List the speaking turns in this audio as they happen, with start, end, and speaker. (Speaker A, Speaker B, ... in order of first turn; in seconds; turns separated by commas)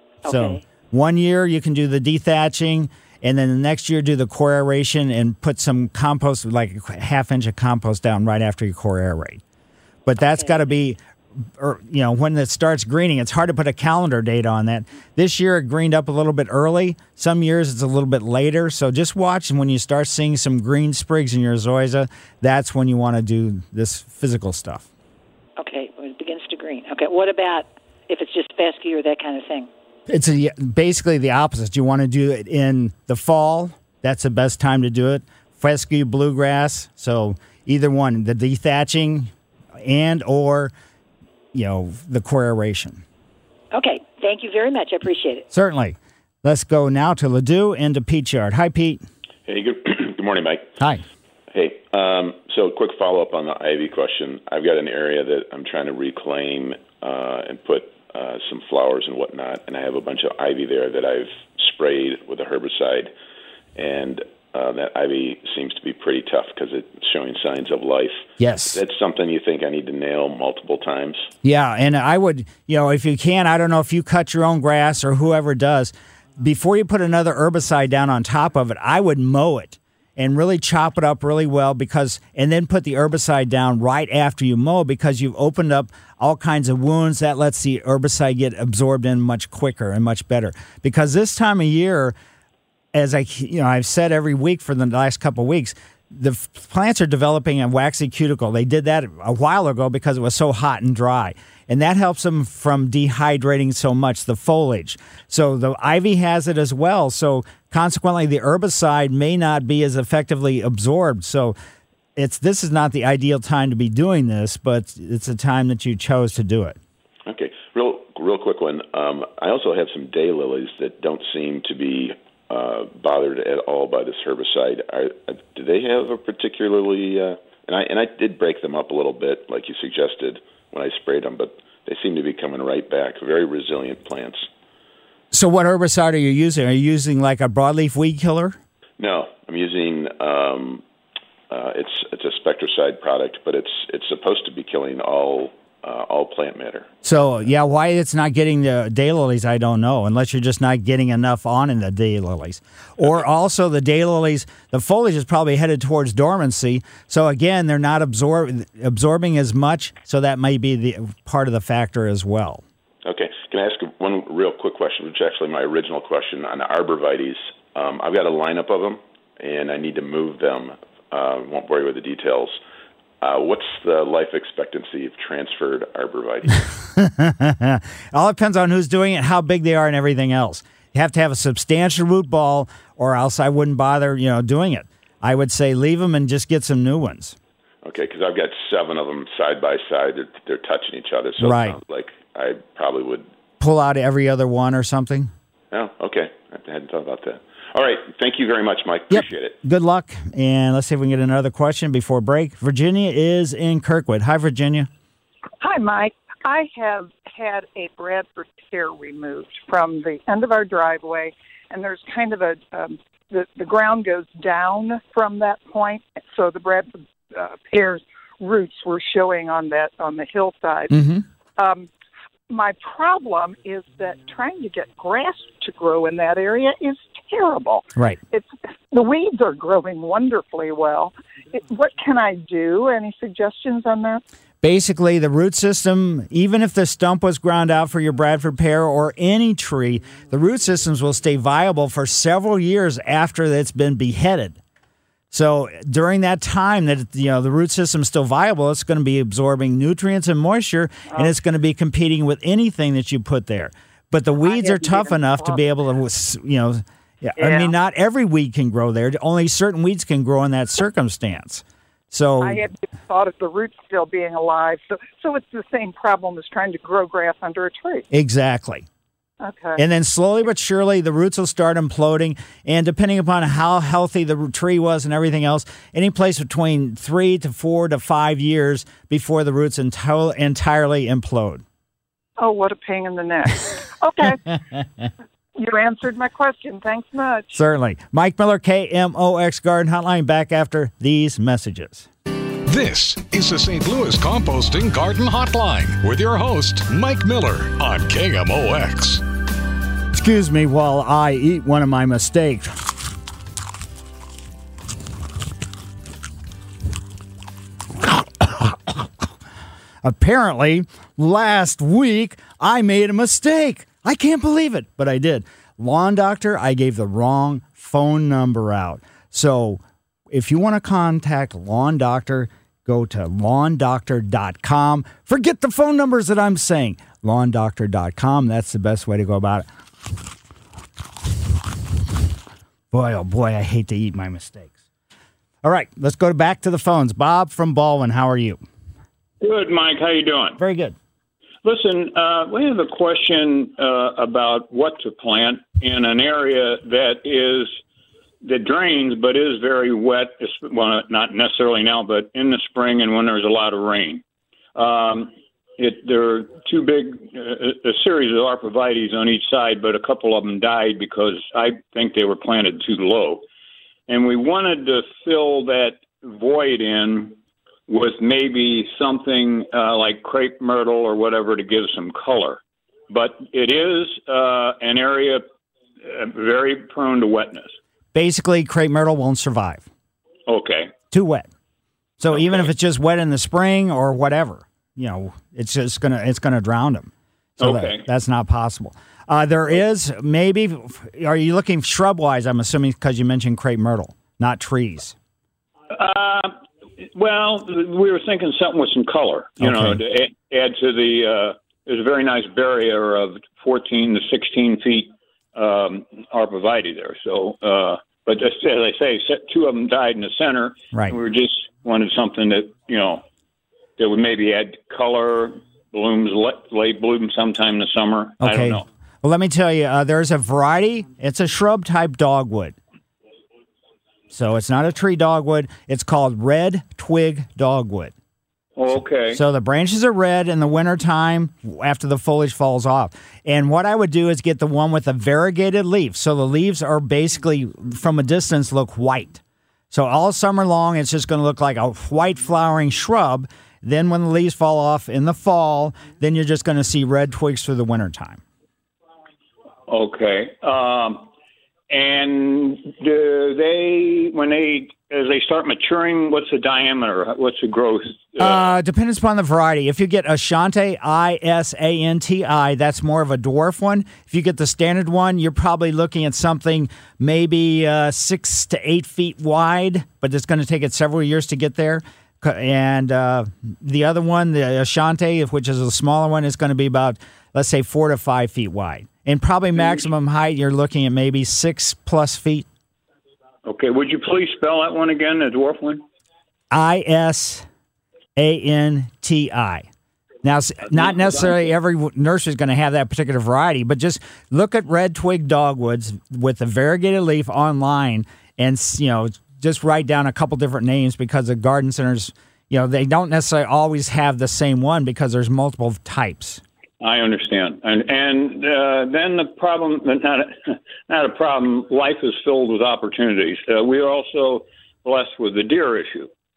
Speaker A: 0.2-0.6, Speaker B: 0.2-9.4, Speaker B: 10.1-11.0, Speaker A: 10.2-10.7, Speaker B: 11.6-24.9, Speaker A: 25.6-29.7, Speaker B: 30.1-40.7, Speaker B: 41.5-43.0, Speaker A: 43.7-45.5, Speaker B: 45.5-49.0, Speaker C: 49.5-50.7, Speaker B: 50.8-51.0, Speaker C: 51.5-63.1, Speaker C: 63.8-71.3, Speaker B: 68.4-68.8, Speaker B: 71.4-92.2, Speaker B: 92.9-111.6, Speaker B: 112.2-116.8, Speaker C: 117.3-134.5, Speaker B: 135.3-138.6, Speaker C: 139.0-140.8, Speaker C: 141.5-146.9, Speaker B: 147.0-162.6, Speaker C: 163.1-172.6, Speaker C: 173.2-176.7, Speaker B: 177.0-187.4, Speaker C: 187.8-193.3, Speaker B: 191.4-191.8, Speaker B: 193.6-195.3, Speaker C: 195.7-199.6, Speaker B: 199.1-204.9, Speaker D: 205.6-221.0, Speaker B: 220.9-221.2, Speaker D: 221.6-221.9, Speaker D: 222.5-234.2, Speaker B: 234.6-244.6, Speaker B: 245.3-262.6, Speaker D: 251.1-251.3, Speaker D: 254.4-255.6, Speaker D: 257.4-257.7, Speaker D: 262.4-268.1, Speaker B: 268.1-268.9, Speaker D: 269.4-269.8, Speaker B: 269.8-281.6, Speaker D: 282.4-284.5, Speaker D: 285.6-287.6, Speaker B: 287.5-292.1, Speaker E: 292.7-299.2, Speaker B: 300.1-302.7, Speaker B: 308.0-309.1, Speaker B: 310.0-329.7, Speaker B: 332.9-334.8, Speaker B: 335.6-338.6, Speaker F: 339.4-340.6, Speaker B: 340.6-341.0, Speaker F: 341.6-347.8, Speaker F: 348.4-354.2, Speaker F: 354.8-363.4, Speaker F: 364.1-367.4, Speaker F: 367.9-375.4, Speaker F: 376.0-377.8, Speaker B: 378.1-379.9, Speaker F: 380.5-380.9, Speaker B: 381.1-381.5, Speaker B: 382.2-395.2, Speaker F: 382.3-382.7, Speaker F: 387.6-388.1, Speaker F: 395.9-396.5, Speaker F: 397.1-413.2, Speaker B: 399.6-400.0, Speaker B: 410.9-411.2, Speaker F: 414.0-418.9, Speaker B: 418.4-422.8, Speaker B: 424.3-428.1, Speaker F: 428.8-429.4, Speaker B: 429.3-448.4, Speaker F: 449.9-451.3, Speaker F: 451.9-458.8, Speaker B: 458.4-482.7, Speaker F: 483.6-486.0, Speaker B: 486.7-487.7, Speaker B: 488.4-489.9, Speaker B: 490.4-506.6, Speaker F: 507.0-516.3